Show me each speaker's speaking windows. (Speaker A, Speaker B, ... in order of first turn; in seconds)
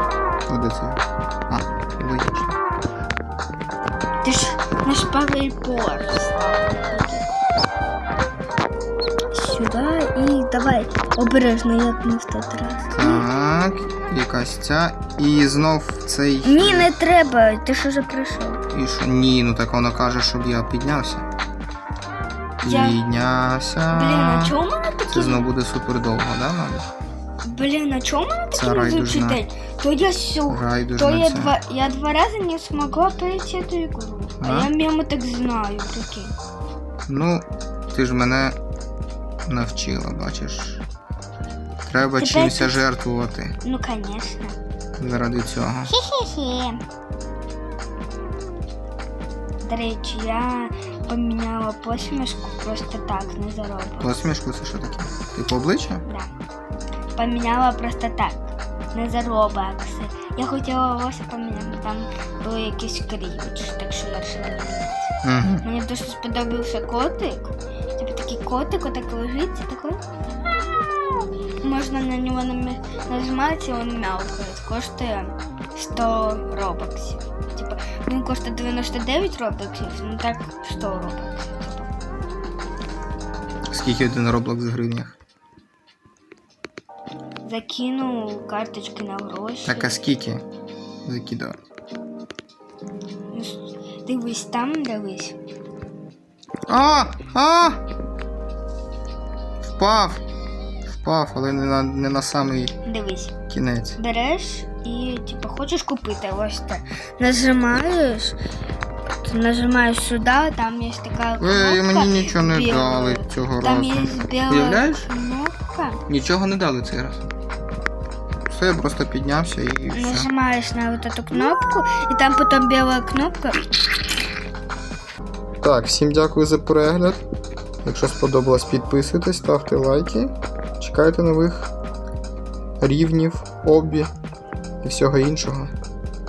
Speaker A: 0.5-2.6, 12.9-16.9, 18.7-21.2, 22.6-24.6, 25.1-26.9, 28.5-29.4, 30.5-31.6, 34.4-34.7, 37.1-38.6, 39.5-40.8, 41.9-43.5, 45.0-45.9, 54.0-56.0, 65.2-65.7, 83.7-85.1, 89.6-90.4, 91.0-91.6, 96.7-97.8, 99.6-100.2, 100.9-102.8, 103.5-104.0, 111.4-115.1, 116.1-117.3, 118.5-120.3, 125.6-127.2, 127.8-131.7, 132.8-134.1, 134.8-135.7
Speaker B: 4.2-7.3, 9.3-13.3, 16.4-18.6, 22.6-23.0, 23.9-25.4, 27.4-36.3, 42.2-42.9, 43.6-44.6, 45.9-46.8, 49.6-54.3, 56.0-56.3, 57.1-70.0, 71.0-81.9, 87.4-90.0, 93.3-95.3, 102.8-103.3, 104.0-108.4, 109.2-116.0, 119.9-123.7